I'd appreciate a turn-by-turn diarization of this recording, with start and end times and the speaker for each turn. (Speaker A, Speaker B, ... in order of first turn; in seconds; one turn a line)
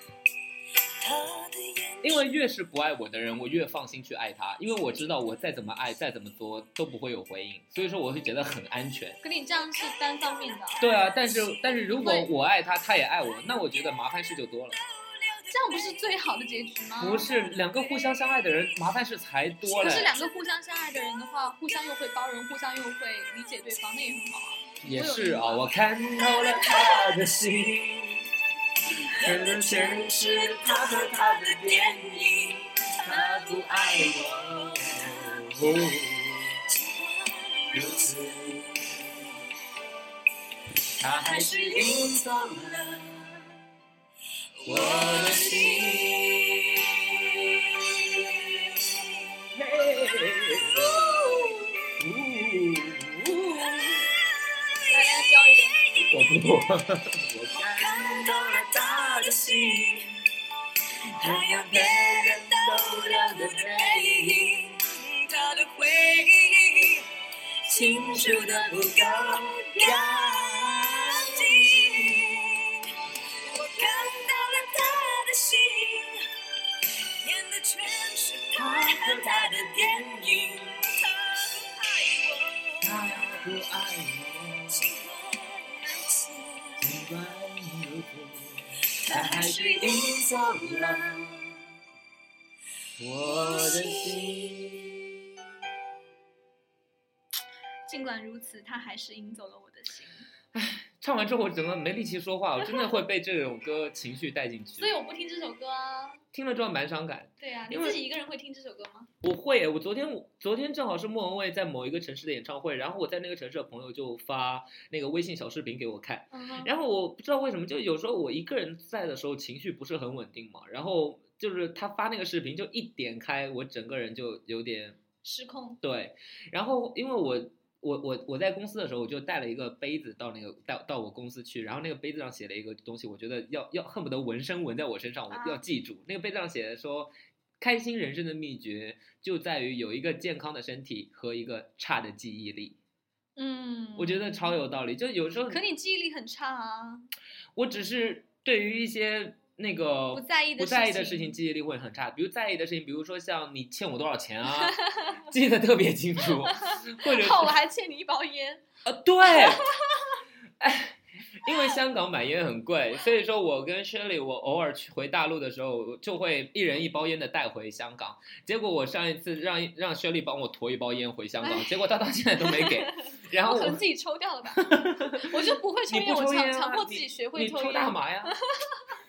Speaker A: 0.8-2.3
Speaker B: 2.0-9.2
Speaker C: 9.2-10.8
Speaker A: 9.6-11.8
Speaker B: 10.8-14.8
Speaker C: 11.9-12.3
Speaker A: 13.3-14.1
Speaker A: 14.7-16.1
Speaker C: 15.5-17.3
Speaker B: 17.0-20.1
Speaker A: 17.1-18.8
Speaker C: 19.7-25.7
Speaker B: 24.8-28.2
Speaker A: 26.2-27.1
Speaker A: 29.1-39.5
Speaker B: 29.1-32.0
Speaker B: 33.0-36.6
Speaker B: 37.7-38.8
Speaker B: 41.0-42.4
Speaker A: 41.1-43.3
Speaker A: 44.6-49.4
Speaker B: 44.7-46.2
Speaker B: 49.5-51.1
Speaker A: 50.7-52.0
Speaker B: 52.0-54.0
Speaker A: 53.6-56.4
Speaker C: 54.9-55.8
Speaker B: 56.1-59.3
Speaker A: 57.5-60.1
Speaker A: 61.2-67.1
Speaker B: 61.2-64.0
Speaker A: 67.7-76.3
Speaker B: 68.4-69.9
Speaker A: 76.8-83.5
Speaker B: 78.5-80.1
Speaker B: 82.8-84.8
Speaker A: 84.7-86.9
Speaker B: 86.8-91.5
Speaker A: 89.0-91.2
Speaker B: 93.0-95.0
Speaker A: 93.2-95.0
Speaker C: 97.9-100.3
Speaker B: 100.5-104.9
Speaker C: 104.8-106.2
Speaker B: 106.3-108.0
Speaker C: 107.4-109.1
Speaker B: 109.2-125.0
Speaker C: 116.3-116.7
Speaker C: 125.2-125.8
Speaker B: 125.8-142.8
Speaker C: 135.3-135.6
Speaker C: 143.4-144.3
Speaker B: 144.0-145.6
Speaker C: 145.5-147.1
Speaker B: 147.6-157.6
Speaker C: 150.1-151.4
Speaker C: 154.6-155.3
Speaker C: 156.5-158.7
Speaker B: 158.8-159.7
Speaker C: 159.2-160.2
Speaker B: 160.6-173.8
Speaker C: 171.4-171.8
Speaker C: 172.4-178.8
Speaker B: 174.6-178.4